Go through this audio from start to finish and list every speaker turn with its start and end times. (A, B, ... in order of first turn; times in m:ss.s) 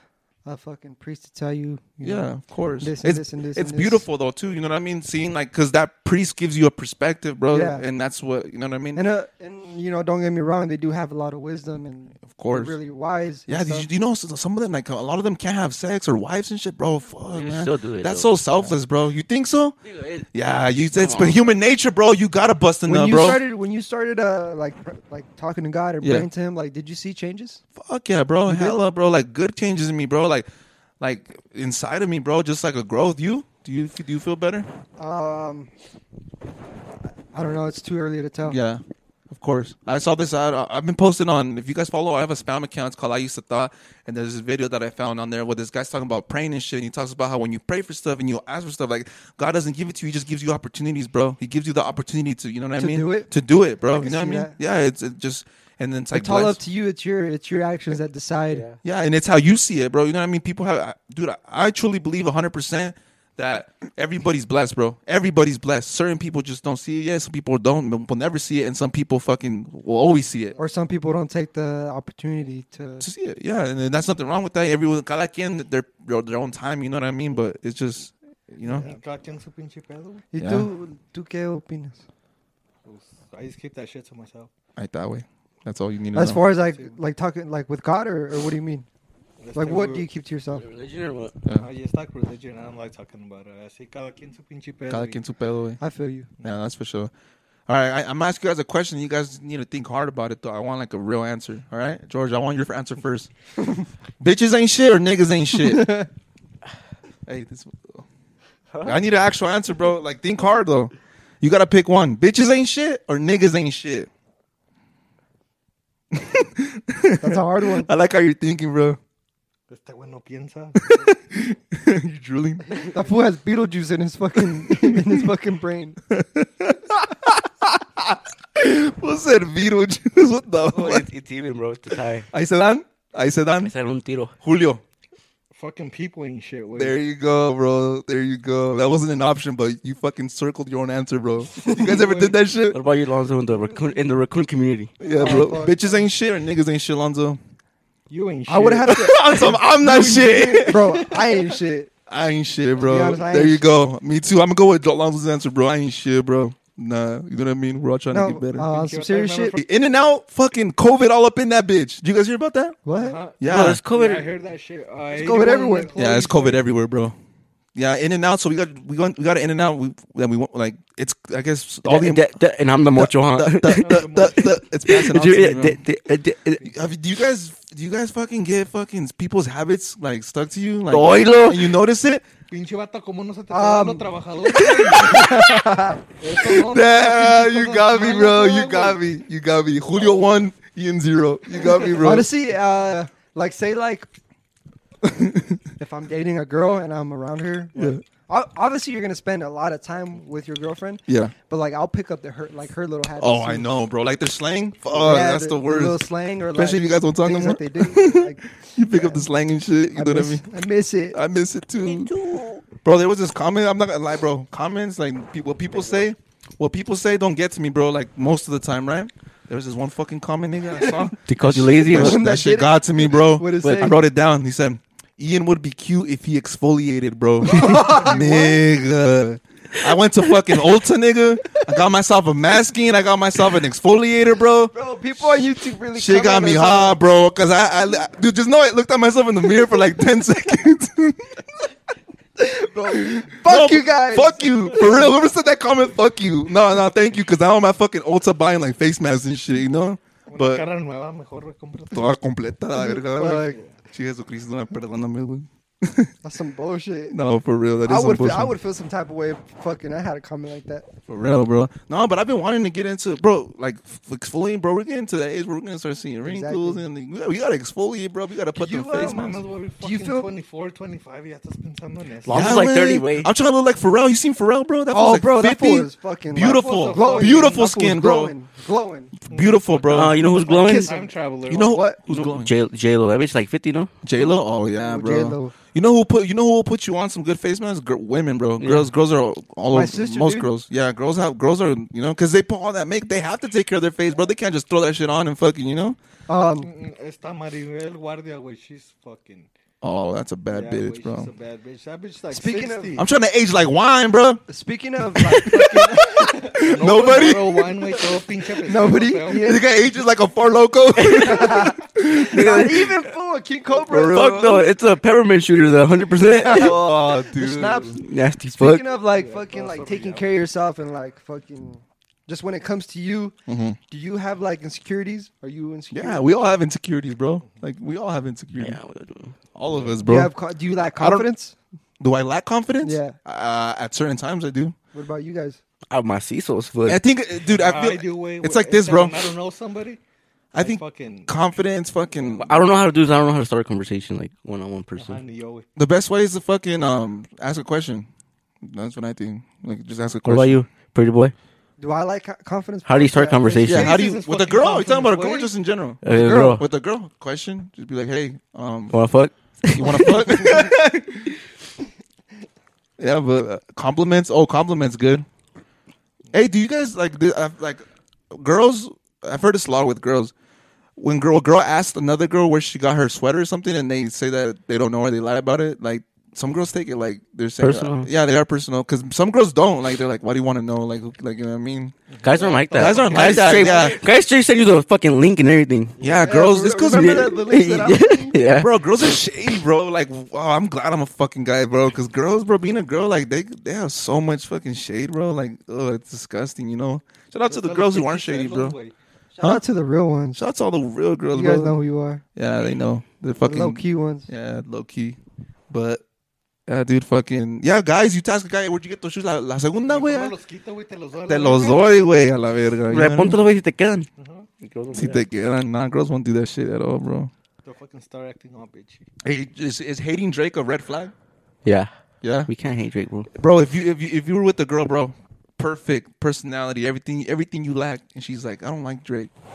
0:00.4-0:04.1 A
0:02.0-0:09.0 B
0:07.5-0:07.8 A
0:09.0-0:13.9 A
0:12.2-0:12.8 B
0:13.5-0:19.8 B
0:17.3-0:18.7 C
0:19.8-0:20.3 C
0:20.3-0:23.4 B
0:21.0-0:21.4 C
0:22.9-0:27.6 A
0:27.8-0:30.5 B
0:28.4-0:28.8 A
0:31.0-0:34.7 B
0:35.0-0:35.7 A
0:37.3-0:38.6 A
0:38.5-0:56.6 B
0:52.8-0:53.3 A
0:53.9-0:54.6 A
0:56.1-0:58.7 A
0:58.8-1:10.6 B
1:10.6-1:13.0 A
1:13.0-1:18.9 B
1:18.7-1:20.2 D
1:20.3-1:22.0 A
1:20.4-1:20.7 B
1:22.8-1:24.5 D
1:24.8-1:26.5 B
1:26.1-1:28.9 A
1:26.6-1:27.0 D
1:29.4-1:30.1 D
1:29.6-1:30.6 A
1:30.6-1:31.4 C
1:31.6-1:35.2 D
1:34.9-1:35.8 B
1:35.8-1:36.3 A
1:36.4-1:37.1 B
1:37.7-1:43.3 B
1:44.2-1:46.0 B
1:45.5-1:46.1 A
1:47.3-1:48.0 B
1:48.8-1:54.1 B
1:56.1-1:59.0 B
1:57.2-1:57.9 A
1:59.7-2:01.1 D
2:00.8-2:02.8 B
2:02.8-2:06.0 A
2:04.7-2:05.1 B
2:06.1-2:11.1 B
2:10.7-2:12.3 C
2:12.3-2:13.7 B
2:13.6-2:14.3 C
2:14.4-2:14.8 B
2:15.6-2:17.0 D
2:16.7-2:22.8 B
2:21.6-2:21.9 A
2:21.7-2:22.4 D
2:22.7-2:25.0 C
2:25.0-2:27.4 B
2:25.0-2:25.8 A
2:28.1-2:31.5 D
2:28.5-2:31.9 A
2:28.8-2:31.1 B
2:32.1-2:38.7 B
2:32.8-2:33.7 A
2:38.1-2:39.6 A
2:38.7-2:39.6 D
2:39.5-2:42.8 B
2:42.8-2:43.2 A
2:43.0-2:46.3 D
2:43.4-2:43.8 B
2:43.4-2:44.3 C
2:45.1-2:46.6 A
2:46.0-2:47.2 B
2:47.8-2:52.2 B
2:51.9-2:56.7 C
2:52.9-2:55.8 B
2:53.8-2:54.5 D
2:56.6-3:02.2 B
3:00.9-3:01.7 C
3:02.5-3:05.2 D
3:03.5-3:06.0 A
3:04.7-3:05.6 B
3:06.2-3:09.0 D
3:06.4-3:12.3 B
3:11.7-3:12.2 D
3:12.0-3:14.1 A
3:15.0-3:15.6 B
3:15.8-3:23.7 A
3:17.8-3:18.0 B
3:21.1-3:21.3 B
3:23.2-3:30.5 B
3:25.0-3:29.2 A
3:30.0-3:31.2 A
3:31.1-3:32.1 B
3:31.8-3:32.6 C
3:32.7-3:54.7 B
3:41.3-3:42.3 C
3:41.8-3:44.0 A
3:43.6-3:43.9 C
3:47.4-3:48.6 A
3:54.7-3:57.0 A
3:55.9-4:01.4 B
4:02.4-4:05.1 A
4:02.9-4:10.7 B
4:10.3-4:12.1 D
4:11.9-4:16.1 B
4:12.8-4:13.6 A
4:16.2-4:17.2 A
4:17.1-4:18.5 B
4:17.8-4:20.9 A
4:21.1-4:29.4 B
4:26.2-4:26.8 A
4:28.6-4:30.3 A
4:28.9-4:32.6 D
4:32.2-4:33.3 C
4:32.3-4:38.3 B
4:34.9-4:39.1 A
4:36.4-4:37.6 D
4:39.2-4:40.2 B
4:39.3-4:41.9 D
4:39.9-4:40.9 C
4:40.5-4:42.0 A
4:41.5-4:42.5 B
4:42.1-4:43.9 C
4:44.0-4:56.0 B
4:44.8-4:45.6 A
4:48.6-4:48.9 C
4:49.7-4:50.5 A
4:56.3-4:56.7 A
4:56.6-4:59.5 D
4:59.8-5:01.3 B
5:00.5-5:03.1 D
5:02.3-5:03.0 A
5:03.0-5:04.5 B
5:04.5-5:06.5 A
5:05.1-5:08.1 B
5:06.5-5:09.6 D
5:08.6-5:09.6 A
5:09.3-5:12.8 B
5:11.0-5:11.7 C
5:11.1-5:14.6 A
5:12.3-5:12.9 C
5:13.8-5:14.6 B
5:13.9-5:16.8 C
5:16.4-5:18.0 A
5:16.4-5:18.0 B
5:18.0-5:18.9 C
5:18.6-5:23.4 A
5:19.0-5:20.3 D
5:23.5-5:23.8 B
5:23.9-5:26.2 A
5:25.9-5:28.8 B
5:28.6-5:29.4 C
5:29.6-5:30.3 B
5:30.0-5:31.6 A
5:31.0-5:31.3 B
5:32.0-5:34.8 B
5:32.8-5:33.2 A
5:34.9-5:35.6 A
5:35.9-5:37.0 C
5:36.9-5:39.3 B
5:37.5-5:40.0 D
5:40.5-5:41.3 D
5:40.5-5:42.6 B
5:42.4-5:45.2 C
5:45.0-5:45.7 D
5:45.8-5:48.1 B
5:48.6-5:50.6 B
5:50.2-5:51.3 C
5:51.8-5:54.0 A
5:52.9-5:54.0 C
5:53.6-5:59.0 B
5:53.7-5:55.5 D
5:56.0-5:56.6 C
5:56.1-5:56.6 A
5:58.9-6:00.6 C
5:59.7-6:01.3 B
6:03.0-6:05.3 B
6:06.3-6:10.3 B
6:11.0-6:22.0 B
6:17.6-6:18.1 C
6:22.1-6:24.0 D
6:22.2-6:26.0 C
6:22.8-6:24.0 B
6:26.0-6:26.3 D
6:26.0-6:27.5 B
6:26.2-6:28.4 A
6:26.7-6:28.7 C
6:28.5-6:38.8 B
6:37.5-6:38.9 D
6:39.3-6:40.4 A
6:40.4-6:41.8 B
6:41.3-6:42.2 A
6:42.4-6:45.2 B
6:43.4-6:44.3 A
6:45.7-6:46.0 B
6:46.7-6:50.3 B
6:49.9-6:52.0 D
6:51.3-6:53.4 B
6:52.9-6:54.1 C
6:54.2-6:54.5 D
6:54.6-6:55.2 C
6:54.9-6:57.3 B
6:57.6-6:59.1 D
6:59.2-7:01.1 B
7:01.6-7:01.9 C
7:02.2-7:02.5 B
7:02.5-7:03.3 C
7:03.3-7:09.3 B